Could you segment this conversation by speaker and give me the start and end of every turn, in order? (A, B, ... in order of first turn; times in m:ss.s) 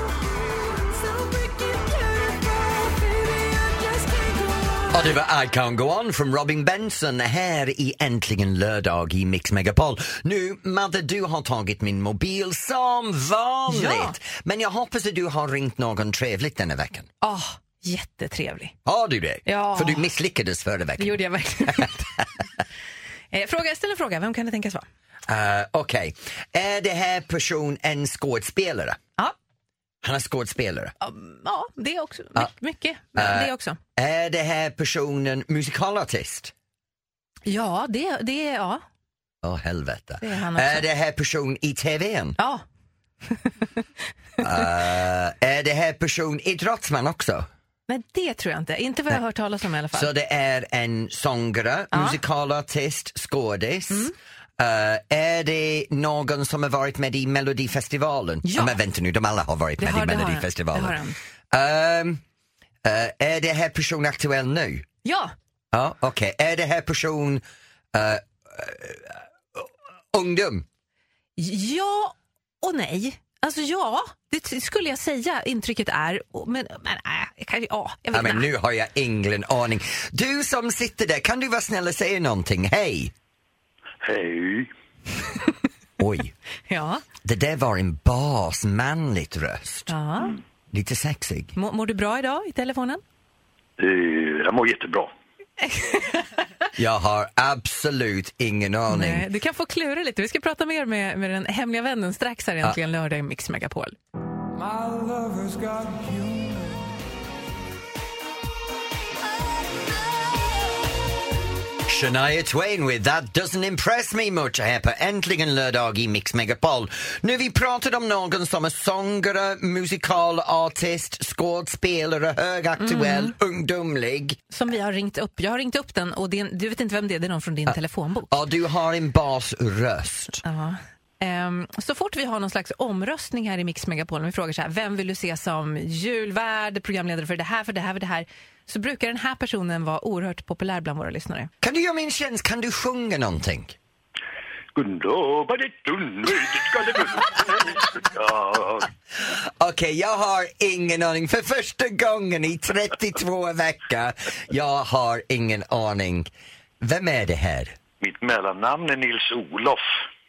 0:00.3-0:05.0 A
0:04.9-0:17.1 B
0:13.7-0:14.1 C
0:17.2-0:18.7 C
0:18.8-0:22.2 B
0:19.4-0:20.1 C
0:21.0-0:22.1 C
0:23.3-0:24.8 C
0:25.3-0:29.0 B
0:30.0-0:30.9 B
0:31.0-0:33.8 C
0:33.2-0:36.5 B
0:37.4-0:38.8 C
0:39.4-0:42.4 B
0:40.2-0:40.9 C
0:42.4-0:42.6 C
0:43.3-0:43.7 C
0:44.4-0:47.5 B
0:47.9-0:50.1 C
0:49.9-1:01.0 B
0:51.9-0:52.2 C
0:58.4-0:58.8 C
0:59.8-1:01.2 C
1:01.5-1:02.2 B
1:02.8-1:04.8 B
1:05.0-1:05.3 C
1:05.7-1:10.6 B
1:11.4-1:18.5 C
1:18.1-1:23.1 B
1:24.0-1:24.7 D
1:26.0-1:26.3 B
1:26.7-1:27.0 C
1:27.2-1:29.9 B
1:29.9-1:30.4 C
1:30.7-1:31.5 B
1:31.6-1:33.0 C
1:33.8-1:35.1 D
1:35.6-1:36.4 C
1:36.8-1:39.3 B
1:38.9-1:44.0 C
1:44.5-1:46.9 A
1:51.9-2:04.4 B
2:02.8-2:03.3 C
2:04.5-2:08.3 C
2:08.3-2:10.4 B
2:10.4-2:21.5 C
2:21.6-2:23.8 B
2:24.7-2:28.9 D
2:29.2-2:36.3 B
2:36.8-2:37.8 B
2:38.0-2:39.8 D